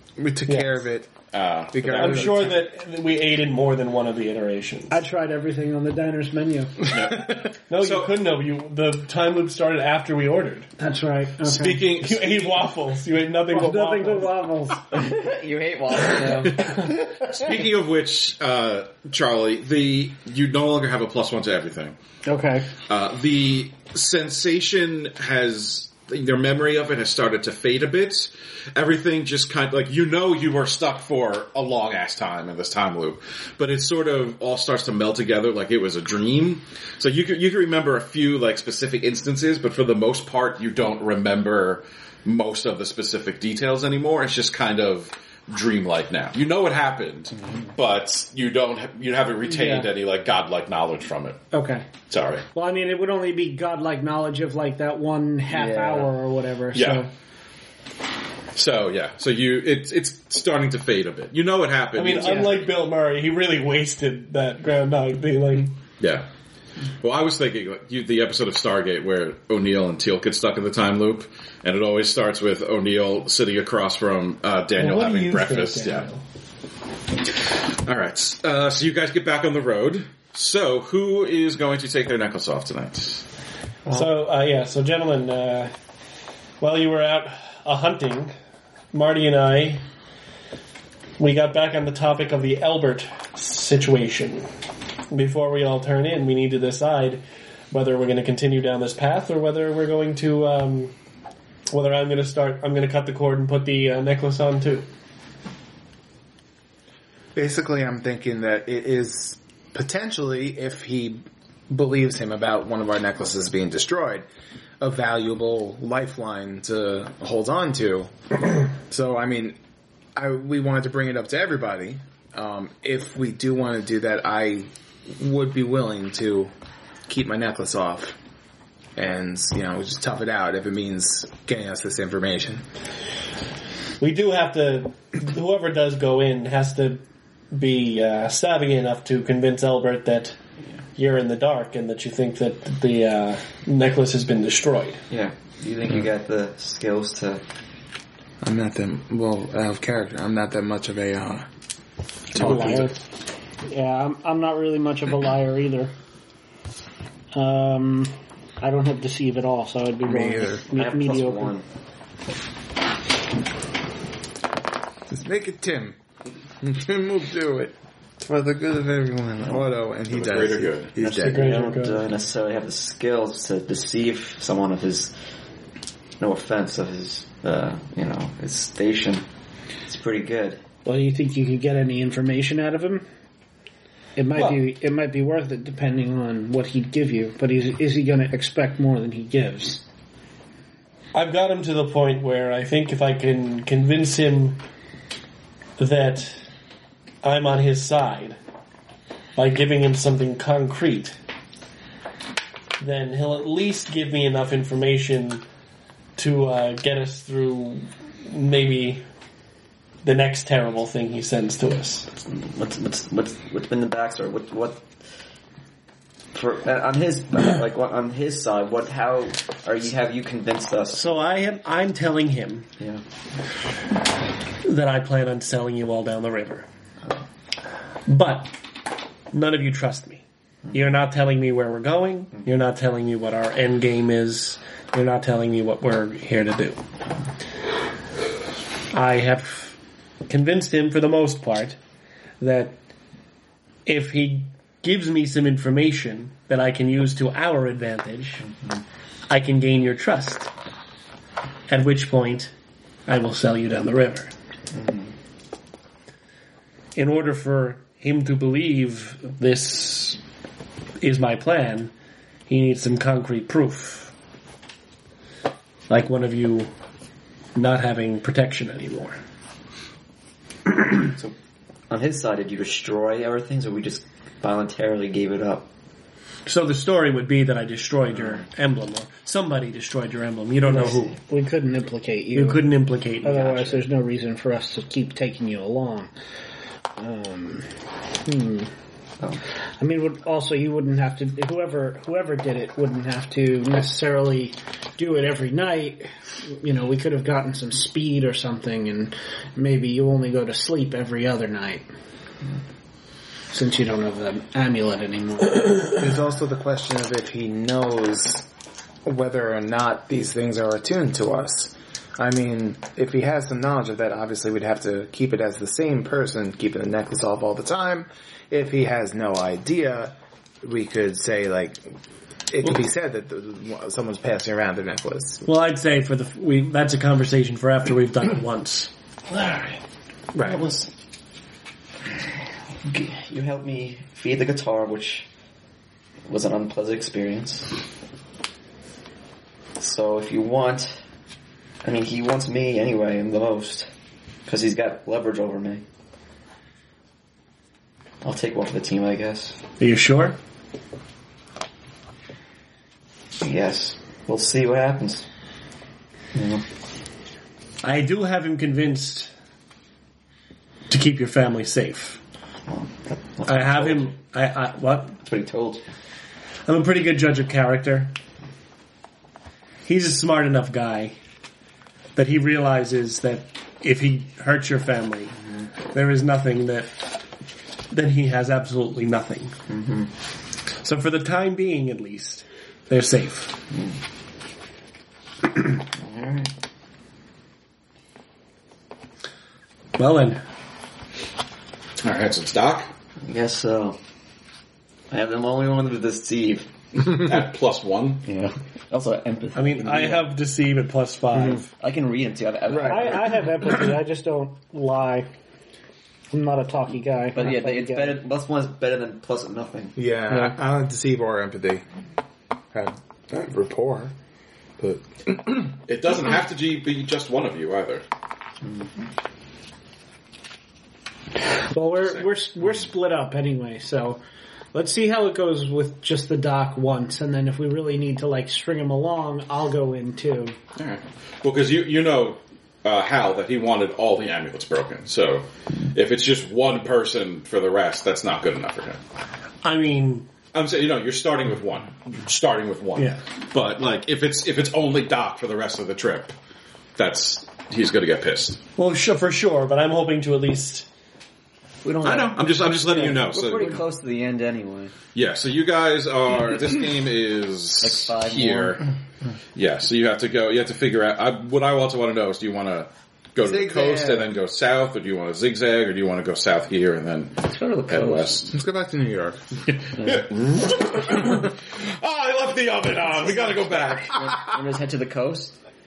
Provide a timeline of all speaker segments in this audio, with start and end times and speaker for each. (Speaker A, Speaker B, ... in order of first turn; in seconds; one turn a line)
Speaker A: 0.2-1.1
Speaker B: 0.5-0.8
Speaker C: 1.3-2.5
Speaker A: 1.7-2.6
Speaker B: 1.9-5.0
Speaker D: 4.9-6.8
Speaker C: 6.9-8.2
Speaker A: 7.0-7.4
Speaker B: 7.7-10.7
Speaker D: 10.8-11.8
Speaker C: 11.4-12.6
Speaker B: 11.9-14.3
Speaker D: 13.5-14.9
Speaker E: 14.9-17.3
Speaker C: 16.6-22.0
Speaker D: 22.3-22.7
Speaker C: 22.9-51.4
Speaker D: 51.5-51.9
Speaker C: 52.1-52.5
Speaker D: 52.5-57.1
Speaker E: 55.5-56.1
Speaker C: 56.7-57.1
Speaker C: 58.5-62.6
Speaker B: 62.0-65.7
Speaker D: 62.2-62.5
Speaker C: 66.0-66.3
Speaker C: 67.0-76.1
Speaker B: 74.8-76.2
Speaker C: 77.8-83.2
Speaker B: 83.9-85.7
Speaker B: 86.6-88.3
Speaker B: 88.9-89.8
Speaker B: 91.2-94.5
Speaker B: 95.1-100.9
Speaker B: 101.7-104.9
Speaker A: 107.3-114.3
Speaker A: 114.8-118.1
Speaker A: 118.8-119.6
Speaker A: 120.2-126.5
Speaker A: 127.1-128.2
Speaker A: 129.0-132.7
Speaker B: 134.0-137.0
Speaker B: 137.5-140.4
Speaker B: 141.0-145.0
Speaker E: 145.1-147.4
Speaker A: 148.4-151.5
Speaker C: 152.3-152.9
Speaker D: 152.3-153.0
Speaker A: 152.3-152.9
Speaker D: 153.7-155.9
Speaker D: 157.3-161.5
Speaker A: 160.1-160.6
Speaker E: 160.7-161.7
Speaker A: 165.1-166.0
Speaker A: 166.6-171.6
Speaker C: 170.1-170.9
Speaker E: 171.0-175.1
Speaker B: 171.2-172.1
Speaker E: 176.2-179.3
Speaker E: 179.9-180.6
Speaker D: 180.8-183.0
Speaker D: 184.2-189.8
Speaker B: 191.1-194.6
Speaker B: 195.8-196.4
Speaker B: 197.2-198.4
Speaker B: 199.4-201.2
Speaker B: 202.8-205.4
Speaker B: 206.2-209.0
Speaker B: 210.0-212.1
Speaker E: 212.3-214.9
Speaker E: 216.3-221.1
Speaker B: 220.9-222.7
Speaker B: 224.6-226.7
Speaker B: 228.1-228.5
Speaker B: 229.3-236.8
Speaker B: 238.9-239.8
Speaker B: 240.3-241.8
Speaker B: 242.4-242.8
Speaker B: 243.9-248.4
Speaker E: 248.4-248.8
Speaker B: 249.3-250.5
Speaker B: 251.7-252.5
Speaker B: 253.1-254.3
Speaker E: 254.7-255.1
Speaker B: 257.0-260.2
Speaker B: 261.0-261.9
Speaker B: 262.5-264.1
Speaker B: 265.9-266.7
Speaker B: 267.6-269.2
Speaker E: 270.9-271.4
Speaker E: 271.9-275.7
Speaker B: 276.5-281.2
Speaker E: 278.1-278.5
Speaker E: 280.7-281.2
Speaker D: 280.8-286.1
Speaker B: 282.4-283.8
Speaker D: 287.0-287.7
Speaker D: 288.2-288.7
Speaker D: 289.8-301.9
Speaker D: 303.5-306.0
Speaker A: 305.9-308.5
Speaker A: 309.1-321.9
Speaker A: 322.5-325.5
Speaker B: 325.4-328.9
Speaker E: 329.3-329.8
Speaker E: 330.4-330.9
Speaker E: 332.9-335.3
Speaker E: 336.3-337.8
Speaker E: 339.8-341.0
Speaker E: 341.8-343.9
Speaker E: 344.5-345.8
Speaker E: 348.2-349.6
Speaker B: 349.8-350.4
Speaker E: 353.4-355.3
Speaker E: 356.4-356.6
Speaker B: 357.8-359.3
Speaker B: 360.9-362.2
Speaker E: 362.7-364.1
Speaker B: 363.5-365.2
Speaker E: 365.2-365.8
Speaker B: 366.7-368.1
Speaker B: 369.9-371.1
Speaker B: 372.2-375.4
Speaker E: 375.4-375.7
Speaker B: 375.9-376.9
Speaker B: 377.9-379.6
Speaker E: 379.7-380.1
Speaker B: 380.8-383.6
Speaker E: 383.7-384.0
Speaker E: 385.7-386.5
Speaker B: 390.0-390.4
Speaker C: 392.0-392.9
Speaker E: 393.2-394.0
Speaker E: 395.1-396.7
Speaker C: 397.0-398.2
Speaker E: 398.2-400.4
Speaker B: 399.6-401.7
Speaker E: 401.8-403.4
Speaker A: 402.7-403.3
Speaker D: 402.9-405.3
Speaker D: 406.3-408.2
Speaker E: 407.4-410.0
Speaker A: 410.0-411.9
Speaker A: 412.7-414.1
Speaker A: 414.8-415.7
Speaker C: 415.8-418.0
Speaker E: 418.6-418.9
Speaker D: 421.6-424.2
Speaker D: 424.7-430.6
Speaker C: 430.8-439.0
Speaker B: 439.6-440.3
Speaker C: 440.5-446.4
Speaker C: 447.0-448.6
Speaker B: 448.8-450.9
Speaker E: 451.8-454.9
Speaker C: 452.0-453.8
Speaker C: 455.1-458.9
Speaker E: 457.8-458.9
Speaker C: 459.6-468.5
Speaker A: 463.4-464.3
Speaker E: 467.4-468.4
Speaker A: 468.5-469.4
Speaker C: 469.8-474.3
Speaker E: 470.0-470.2
Speaker E: 473.1-475.6